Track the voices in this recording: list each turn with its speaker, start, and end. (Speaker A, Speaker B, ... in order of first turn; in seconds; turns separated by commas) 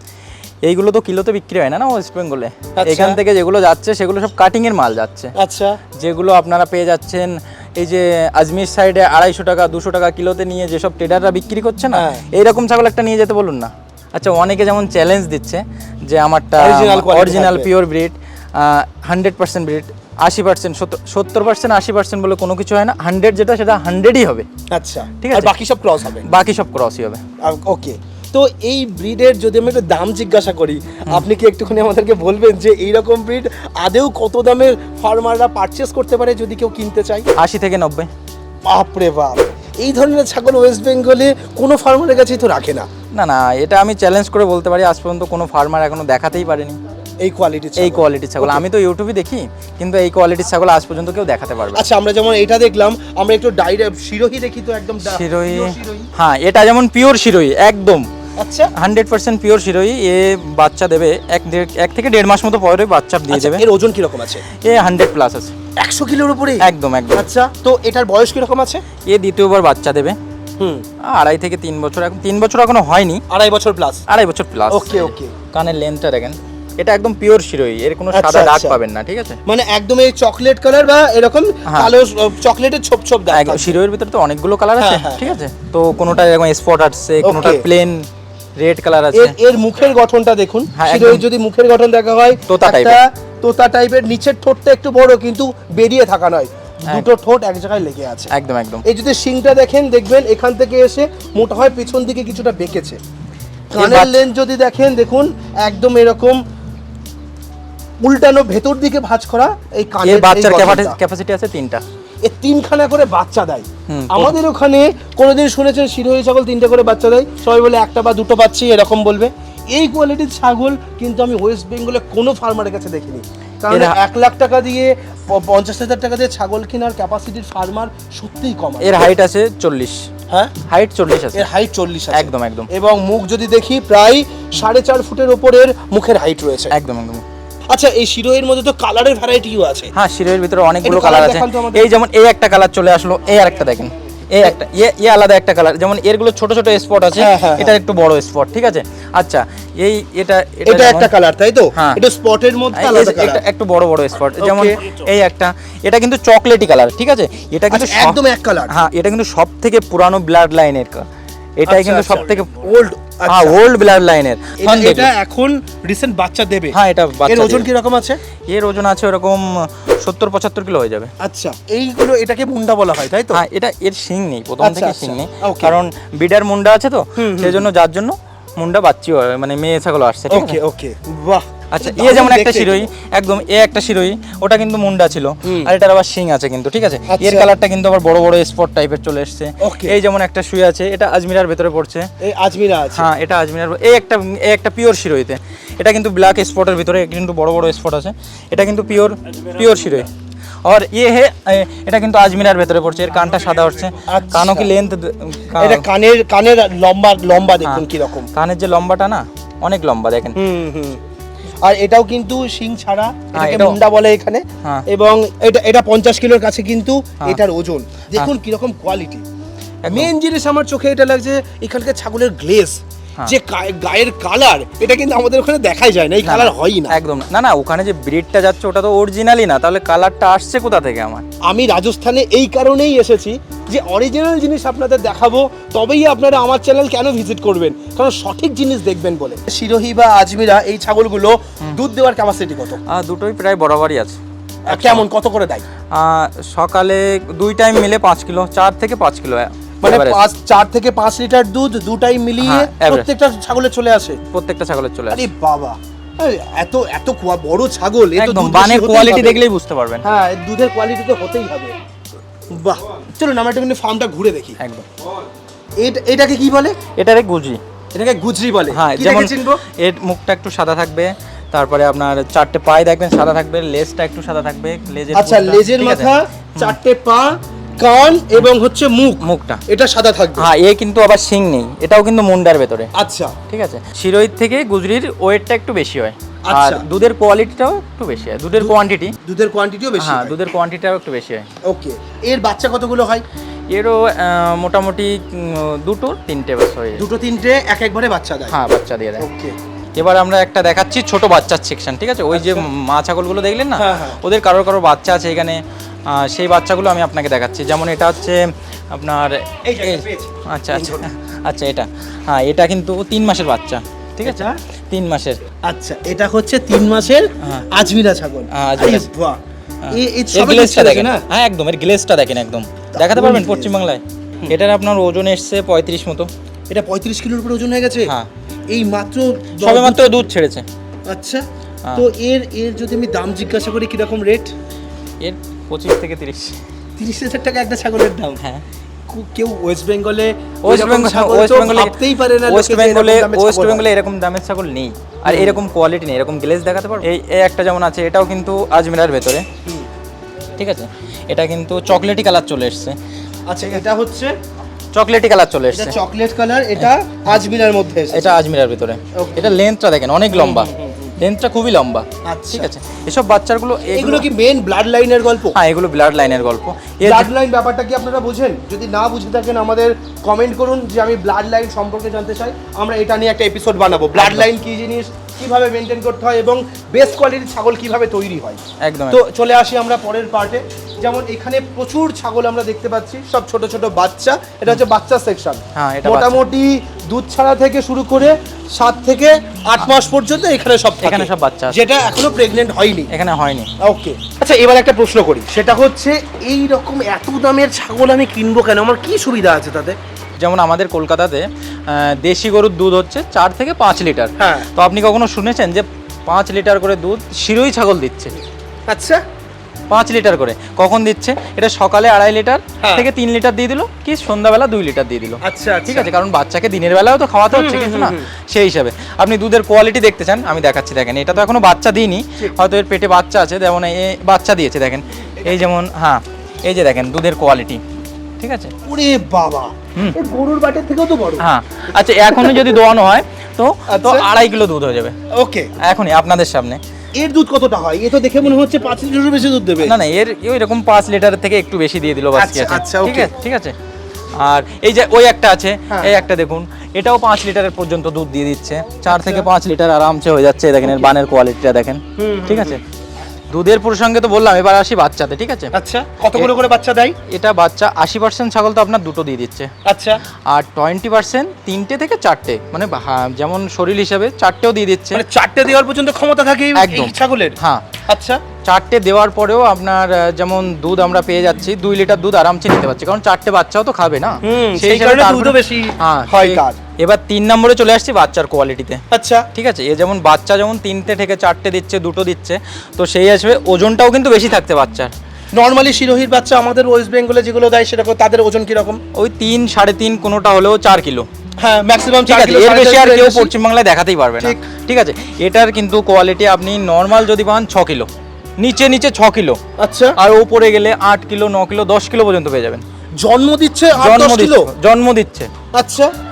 Speaker A: 0.6-5.3, Speaker B: 2.8-3.2, Speaker B: 5.3-5.8, Speaker A: 6.0-24.4, Speaker B: 11.9-12.2, Speaker B: 16.6-17.7, Speaker B: 24.7-26.3, Speaker A: 25.2-25.5, Speaker A: 26.2-27.2, Speaker B: 27.4-37.2, Speaker A: 37.4-38.1, Speaker B: 38.7-42.9, Speaker A: 43.1-46.8, Speaker B: 47.2-48.6, Speaker A: 47.8-51.8, Speaker B: 51.7-56.1, Speaker A: 55.0-58.0, Speaker B: 58.4-58.7, Speaker A: 58.8-63.6, Speaker B: 63.3-64.5, Speaker A: 64.5-65.5, Speaker B: 65.8-68.8, Speaker A: 66.6-67.3, Speaker A: 69.1-70.2, Speaker B: 70.6-70.8, Speaker A: 71.1-73.2, Speaker B: 73.3-74.0, Speaker A: 74.1-79.4, Speaker B: 74.7-75.3, Speaker B: 78.1-78.8, Speaker B: 79.5-83.8, Speaker A: 81.7-81.9, Speaker A: 83.3-88.0, Speaker B: 84.8-85.3, Speaker B: 87.2-87.6, Speaker A: 88.6-89.3, Speaker B: 89.1-98.3, Speaker A: 90.7-91.2, Speaker A: 92.5-93.0, Speaker A: 98.3-98.8, Speaker B: 98.8-103.0, Speaker B: 103.7-106.4, Speaker A: 103.8-104.1, Speaker B: 108.0-111.0, Speaker A: 110.0-111.8, Speaker B: 112.2-129.2, Speaker A: 113.9-114.3, Speaker A: 123.7-124.0, Speaker A: 128.8-130.0, Speaker A: 130.6-131.4, Speaker B: 131.3-136.7, Speaker A: 132.1-132.7, Speaker A: 136.7-137.2, Speaker B: 137.7-139.9, Speaker A: 139.9-151.1, Speaker B: 140.8-141.9, Speaker B: 147.1-147.7, Speaker B: 150.7-153.4, Speaker A: 151.7-152.0, Speaker A: 152.7-158.2, Speaker B: 154.4-154.9, Speaker B: 157.7-158.7, Speaker A: 158.7-161.1, Speaker A: 161.6-162.5, Speaker B: 161.7-163.6, Speaker A: 163.3-165.1, Speaker B: 164.6-168.2, Speaker A: 166.7-167.7, Speaker A: 168.5-171.1, Speaker B: 171.2-173.4, Speaker A: 173.3-180.6, Speaker B: 174.6-175.7, Speaker B: 177.2-177.6, Speaker B: 180.3-182.9, Speaker A: 181.7-192.1, Speaker B: 185.4-185.7, Speaker B: 187.1-187.5, Speaker B: 189.6-189.9, Speaker B: 192.2-193.1, Speaker A: 192.9-200.1, Speaker A: 200.6-205.8, Speaker B: 204.0-204.7, Speaker B: 205.6-208.3, Speaker A: 207.6-210.3, Speaker B: 210.3-211.0, Speaker B: 211.6-219.2, Speaker A: 213.3-213.8, Speaker A: 219.8-220.1, Speaker B: 219.8-226.9, Speaker A: 226.2-231.2, Speaker B: 231.4-242.8, Speaker A: 242.9-244.2, Speaker B: 244.7-245.7, Speaker A: 244.7-245.1, Speaker A: 245.9-250.2, Speaker B: 249.8-254.2, Speaker A: 252.4-253.1, Speaker A: 254.3-255.3, Speaker B: 255.1-259.4, Speaker A: 258.2-260.0, Speaker B: 260.0-261.7, Speaker B: 262.5-264.6, Speaker A: 264.6-264.9, Speaker B: 265.8-266.8, Speaker A: 266.9-267.6, Speaker B: 267.9-269.6, Speaker A: 268.7-276.8, Speaker B: 275.1-280.5, Speaker A: 279.2-279.6, Speaker A: 280.4-282.9, Speaker B: 282.9-283.3, Speaker A: 283.5-289.1, Speaker B: 286.4-286.8, Speaker B: 288.6-290.4, Speaker A: 290.0-291.4, Speaker B: 291.6-293.2, Speaker A: 293.7-297.0, Speaker B: 297.0-298.6, Speaker A: 298.5-299.2, Speaker B: 299.2-299.5, Speaker A: 299.9-308.4, Speaker B: 302.3-302.7, Speaker B: 303.8-304.2, Speaker A: 308.9-315.4, Speaker B: 309.6-311.1, Speaker B: 314.2-314.6, Speaker B: 315.6-319.4, Speaker A: 318.5-319.1, Speaker A: 319.8-326.3, Speaker B: 319.9-321.2, Speaker B: 322.9-323.7, Speaker B: 326.7-328.1, Speaker B: 328.7-330.2, Speaker A: 329.6-330.6, Speaker B: 331.1-331.4, Speaker B: 331.9-334.5, Speaker A: 335.2-336.6, Speaker B: 337.0-338.4, Speaker B: 339.1-343.9, Speaker A: 340.6-349.4, Speaker B: 345.3-345.6, Speaker A: 350.6-353.0, Speaker B: 353.5-354.3, Speaker A: 354.9-355.9, Speaker B: 355.7-358.4, Speaker A: 358.1-364.3, Speaker B: 359.1-359.6, Speaker B: 360.3-361.1, Speaker B: 362.2-362.7, Speaker B: 363.9-365.6, Speaker A: 365.5-367.3, Speaker B: 367.0-393.1, Speaker A: 374.1-374.5, Speaker A: 378.8-379.2, Speaker A: 385.7-386.4, Speaker A: 391.0-391.8, Speaker A: 393.1-393.7, Speaker B: 393.8-400.0, Speaker A: 400.4-408.3, Speaker B: 404.4-404.7, Speaker B: 408.9-409.2, Speaker A: 409.9-427.8, Speaker B: 412.8-413.1, Speaker B: 415.4-416.1, Speaker B: 417.5-418.3, Speaker A: 428.4-428.7, Speaker B: 428.8-431.5, Speaker A: 431.4-435.1, Speaker B: 432.2-432.7, Speaker B: 433.9-434.3, Speaker B: 435.3-435.7, Speaker A: 435.8-436.8, Speaker B: 437.1-439.9, Speaker A: 439.8-443.7, Speaker B: 442.3-443.3, Speaker A: 444.4-452.8, Speaker B: 445.9-446.1, Speaker B: 449.1-449.5, Speaker B: 450.8-451.1, Speaker B: 452.2-452.8, Speaker A: 453.5-455.7, Speaker B: 455.7-457.1, Speaker A: 457.3-459.7, Speaker B: 459.9-460.2, Speaker A: 460.5-465.2, Speaker B: 465.1-468.4, Speaker A: 466.7-467.8, Speaker A: 468.6-479.0, Speaker B: 474.4-476.8, Speaker B: 479.1-479.5, Speaker A: 479.5-485.1, Speaker B: 485.5-489.0, Speaker A: 489.1-491.3, Speaker B: 491.6-493.5, Speaker A: 492.3-498.1, Speaker A: 498.6-499.6, Speaker B: 499.8-500.1, Speaker A: 500.2-502.8, Speaker B: 503.2-504.7, Speaker A: 504.0-505.5, Speaker B: 505.7-506.1